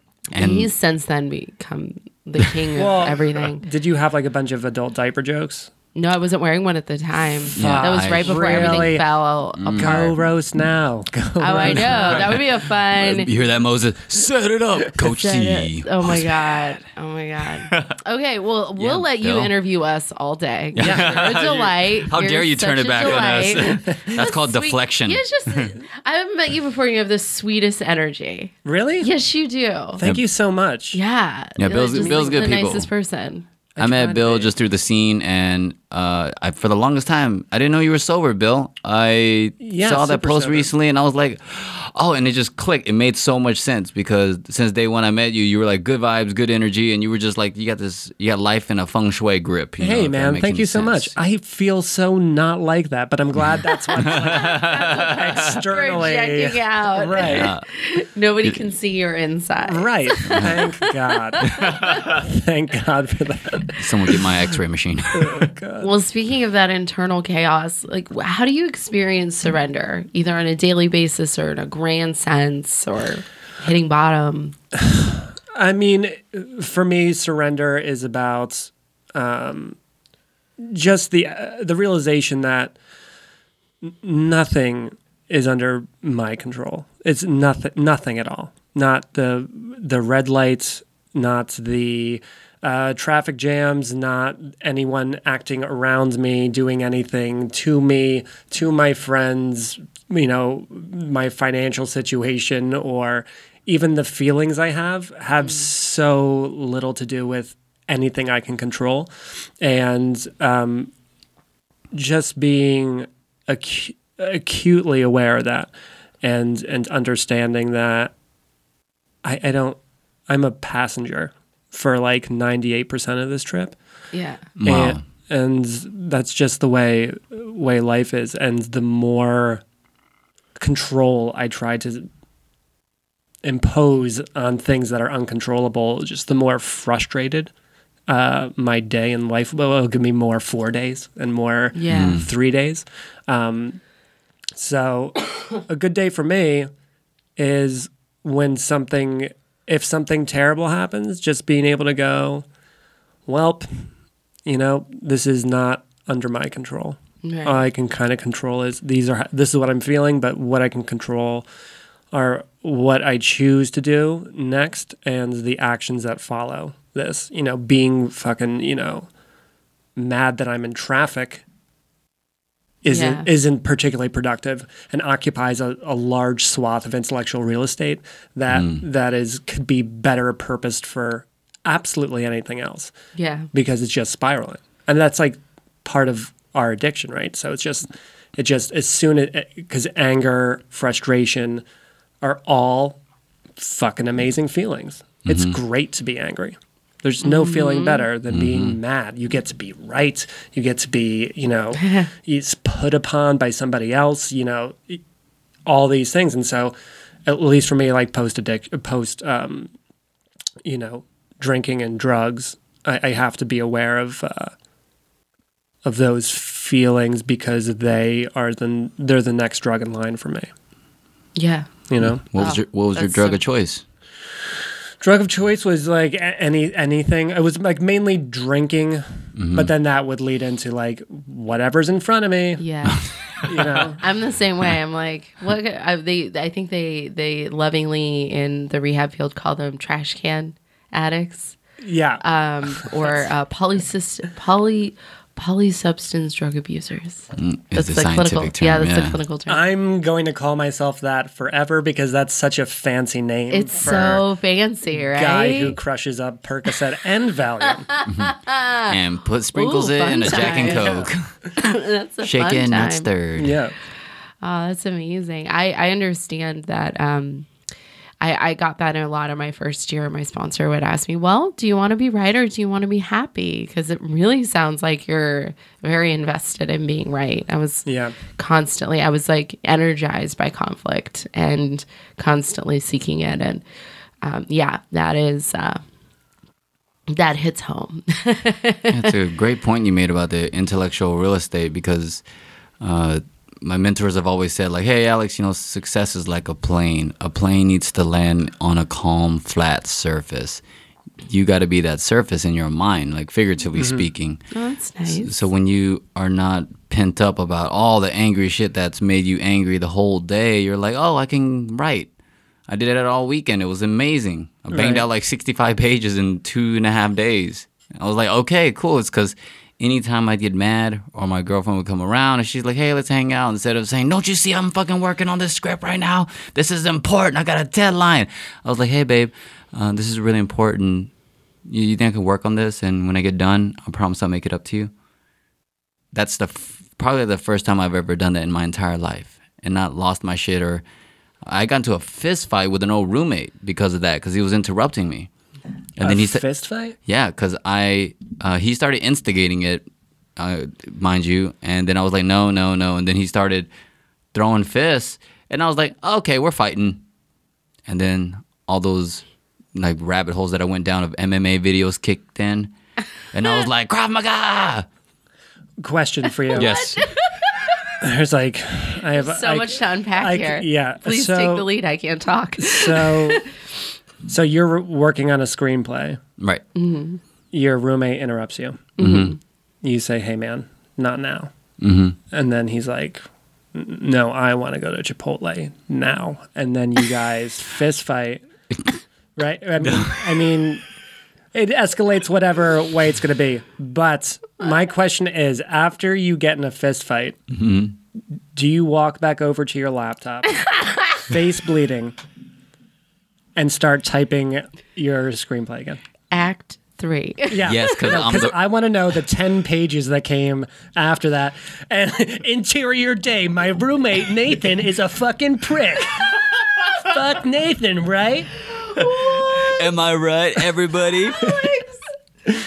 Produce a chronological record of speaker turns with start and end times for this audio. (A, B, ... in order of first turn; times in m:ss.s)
0:00.3-0:00.7 A
0:00.3-0:03.6 B
0:02.8-0:05.7 C
0:05.9-0:10.2 B
0:07.5-0:09.0 C
0:07.6-0:09.0 A
0:09.6-0:10.1 A
0:09.7-0:12.4 C
0:11.4-0:13.3 B
0:11.7-0:16.5 A
0:15.1-0:30.0 B
0:17.7-0:18.0 A
0:18.8-0:19.5 A
0:20.8-0:25.7 A
0:20.8-0:21.5 C
0:28.6-0:29.1 C
0:30.0-0:31.0 C
0:30.9-0:33.5 B
0:31.6-0:32.9 A
0:31.9-0:32.6 C
0:33.7-0:34.5 C
0:33.8-0:51.1 A
0:39.6-0:40.7 C
0:49.8-0:57.5 C
0:53.4-0:55.3 A
0:54.0-1:02.1 B
0:57.2-0:57.6 A
0:59.6-1:04.2 C
1:00.2-1:00.6 A
1:01.4-1:02.2 A
1:03.8-1:05.5 A
1:05.1-1:05.9 C
1:05.8-1:14.6 B
1:15.0-1:19.8 C
1:20.6-1:22.8 C
1:23.8-1:50.9 C
1:45.4-1:45.7 B
1:51.9-1:58.1 C
1:59.2-2:03.8 C
2:04.1-2:04.5 B
2:04.6-2:05.0 A
2:04.6-2:09.6 C
2:10.6-2:12.1 C
2:13.4-2:17.5 C
2:18.1-2:23.8 C
2:21.7-2:22.2 B
2:21.9-2:22.3 A
2:24.5-2:26.7 C
2:27.4-2:32.4 C
2:33.3-2:33.9 C
2:34.4-2:41.4 C
2:37.2-2:37.6 B
2:42.1-2:49.1 C
2:50.0-2:51.4 C
2:52.8-3:02.9 C
2:52.9-2:53.3 B
2:58.5-2:58.8 A
3:03.2-3:03.5 B
3:03.5-3:11.6 C
3:12.2-3:13.0 C
3:13.6-3:25.0 C
3:15.3-3:15.6 A
3:17.2-3:18.1 B
3:18.3-3:18.8 A
3:21.8-3:22.1 B
3:25.6-3:26.7 C
3:27.2-3:29.7 C
3:30.6-3:34.5 C
3:35.8-3:40.5 C
3:41.4-3:41.8 B
3:41.9-3:42.2 C
3:42.0-3:43.8 A
3:42.4-3:43.4 B
3:45.0-3:52.6 C
3:49.4-3:49.7 A
3:52.6-3:53.1 B
3:53.4-3:54.0 C
3:54.0-4:01.6 B
4:01.8-4:02.2 C
4:02.2-4:09.6 B
4:02.8-4:03.2 C
4:07.3-4:09.2 A
4:09.5-4:14.2 C
4:13.5-4:15.8 B
4:14.9-4:17.9 C
4:17.8-4:19.0 B
4:18.1-4:18.3 A
4:18.8-4:21.3 A
4:19.5-4:23.1 B
4:20.3-4:21.1 C
4:22.2-4:23.6 A
4:23.4-4:23.7 C
4:24.4-4:27.5 B
4:28.2-4:43.6 B
4:37.8-4:38.1 C
4:44.2-4:45.8 B
4:47.1-4:49.1 B
4:48.9-4:52.2 A
4:52.8-5:00.6 A
5:01.2-5:04.4 A
5:03.8-5:04.1 C
5:04.5-5:05.3 B
5:05.2-5:12.1 A
5:12.7-5:31.1 A
5:14.7-5:15.0 C
5:31.6-5:34.9 A
5:36.1-5:40.8 A
5:41.4-5:45.3 A
5:46.0-5:46.4 A
5:46.0-5:47.0 C
5:47.0-5:53.7 A
5:54.3-5:57.0 A
5:57.9-6:02.7 A
6:03.3-6:04.8 A
6:05.8-6:06.8 C
6:06.5-6:07.6 B
6:06.5-6:07.1 A
6:08.0-6:11.7 C
6:09.1-6:13.5 B
6:12.6-6:13.4 C
6:14.2-6:16.2 C
6:16.7-6:17.2 B
6:17.5-6:18.9 C
6:19.0-6:19.4 B
6:19.0-6:19.3 A
6:19.8-6:21.5 C
6:21.8-6:22.2 A
6:22.3-6:23.2 C
6:23.7-6:28.4 C
6:29.4-6:30.8 C
6:29.8-6:30.5 A
6:31.5-6:37.4 C
6:37.5-6:37.9 A
6:38.5-6:42.1 C
6:40.8-6:41.2 B
6:43.6-6:46.0 C
6:46.3-6:48.2 B
6:47.5-6:58.5 C
6:47.6-6:48.6 A
6:58.7-6:59.8 B
6:59.3-7:01.7 A
7:01.3-7:02.0 B